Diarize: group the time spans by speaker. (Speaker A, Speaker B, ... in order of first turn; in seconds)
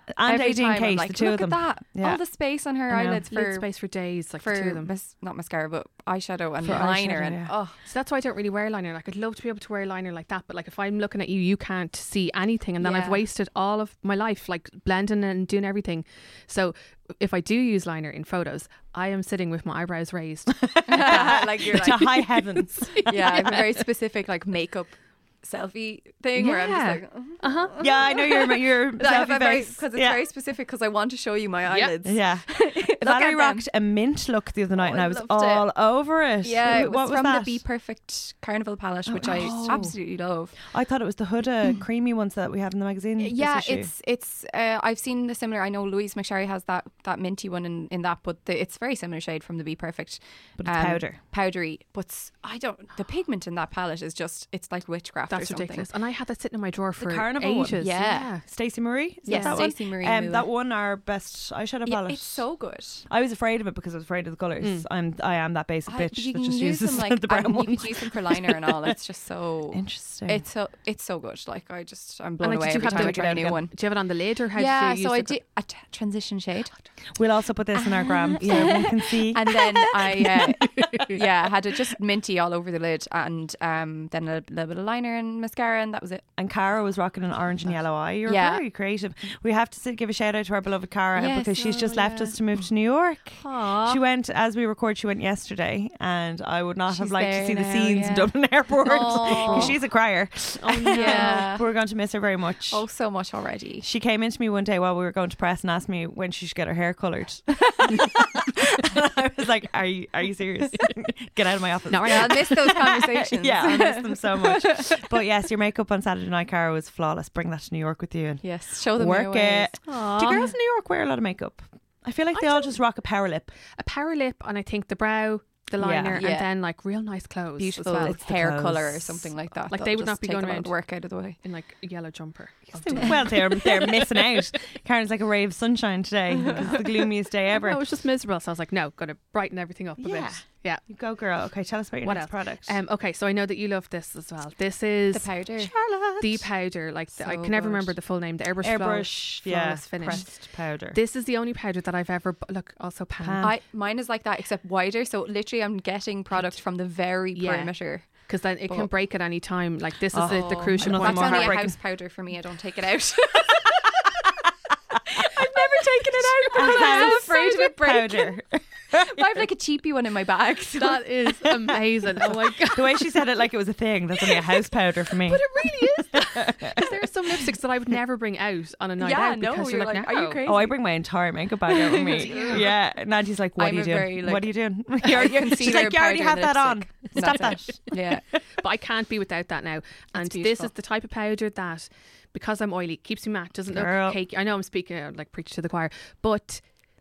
Speaker A: 0.1-2.2, 2.9-3.2, 6.6-7.5, 20.5-23.5, 27.8-30.2, 32.0-37.6, 39.1-39.9, 40.6-43.9, 50.6-51.2, 57.0-57.9, 58.4-62.4, 63.1-68.9, 69.7-70.4, 72.8-73.6, 77.2-79.5, 86.4-102.8, 103.8-123.5, 125.8-126.2, 128.0-129.3, 132.7-137.8, 140.0-142.8, 145.6-146.4, 148.6-151.0, 153.2-153.6, 160.1-161.8, 164.9-165.3, 166.5-169.4, 172.2-177.4, 180.4-187.9, 193.7-194.2
Speaker B: 0.2-3.7, 4.4-7.7, 12.8-13.2, 20.9-22.4, 23.1-33.6, 34.7-35.7, 36.4-40.5, 43.2-55.9, 57.8-58.4, 59.2-60.5, 61.9-63.0, 65.9-73.7, 74.5-76.8, 77.8-86.2, 88.2-88.6, 91.1-92.4, 96.9-99.8, 100.9-101.7, 102.7-103.8, 111.9-115.0, 118.4-119.8, 126.1-126.5, 127.6-131.4, 132.9-133.2, 136.4-136.7, 145.1-145.7, 147.1-147.9, 153.4-158.9, 160.2-164.2, 165.2-168.3, 168.9-171.1, 179.0-180.8, 181.7-182.7, 183.6-188.2, 190.1-190.7
Speaker C: 3.3-4.9, 7.8-21.4, 22.6-23.8, 26.4-28.2, 31.6-31.9, 39.2-39.9, 55.3-58.4, 59.2-59.6, 64.6-64.8, 72.4-75.3, 78.4-78.9, 79.5-81.2, 93.4-94.0, 98.8-99.8, 100.6-101.5, 111.9-112.3, 119.8-120.5, 122.3-122.8, 123.7-128.2, 129.7-130.7, 131.4-133.9, 136.6-140.8, 142.0-145.3, 146.2-153.4, 156.3-156.6, 157.3-161.6, 165.2-167.5, 170.7-173.2, 175.2-180.4, 182.1-182.7, 187.2-187.9, 188.5-196.6